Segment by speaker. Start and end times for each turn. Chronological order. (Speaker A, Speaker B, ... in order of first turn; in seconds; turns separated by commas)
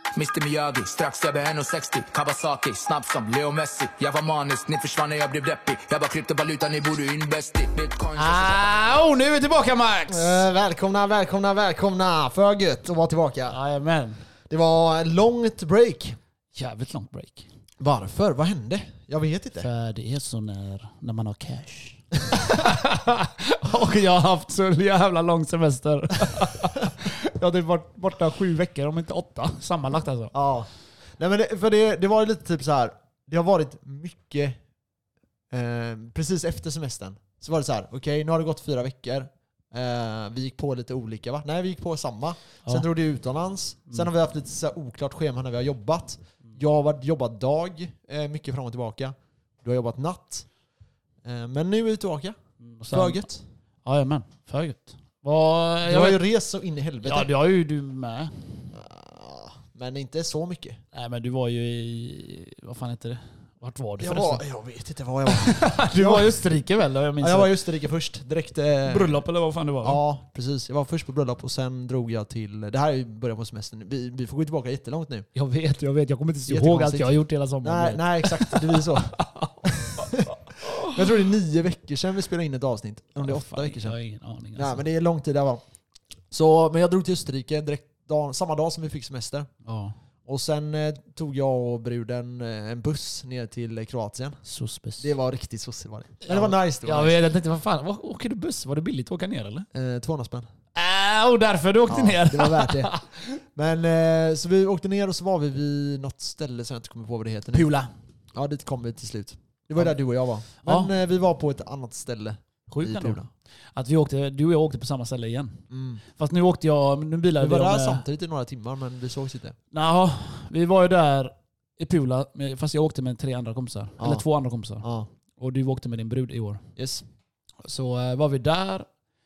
Speaker A: 0.1-9.0, Speaker B: 8.2-10.4, Speaker C: 10.1-13.6, Speaker B: 13.5-14.2, Speaker C: 14.5-16.2, Speaker B: 16.5-17.5, Speaker C: 17.8-19.7, Speaker B: 19.6-30.3, Speaker C: 30.3-34.6, Speaker C: 35.5-50.5, Speaker C: 51.2-52.4, Speaker B: 52.6-53.2, Speaker C: 52.9-53.4, Speaker B: 53.8-56.2, Speaker C: 55.8-57.3, Speaker B: 57.0-58.7, Speaker C: 58.7-60.8, Speaker B: 60.9-64.4, Speaker C: 64.0-66.4, Speaker B: 65.2-67.6, Speaker C: 67.2-69.2, Speaker B: 68.8-70.0, Speaker C: 69.8-75.3, Speaker B: 75.3-81.0, Speaker C: 76.5-84.0, Speaker B: 83.2-84.8, Speaker C: 84.5-85.6, Speaker C: 86.3-89.5, Speaker B: 89.6-90.0, Speaker C: 90.2-94.4, Speaker B: 94.4-95.1, Speaker C: 95.0-97.2, Speaker B: 96.2-99.7, Speaker C: 99.7-100.5, Speaker B: 100.7-103.4, Speaker C: 101.9-102.9, Speaker C: 103.4-107.7, Speaker B: 107.5-107.9, Speaker C: 108.3-113.3, Speaker B: 110.6-110.9, Speaker B: 112.7-113.2, Speaker B: 113.7-118.0, Speaker C: 115.7-116.0, Speaker C: 117.4-119.5, Speaker B: 119.7-126.7, Speaker C: 124.0-124.2, Speaker C: 124.8-125.1, Speaker C: 126.8-127.0, Speaker B: 127.6-128.9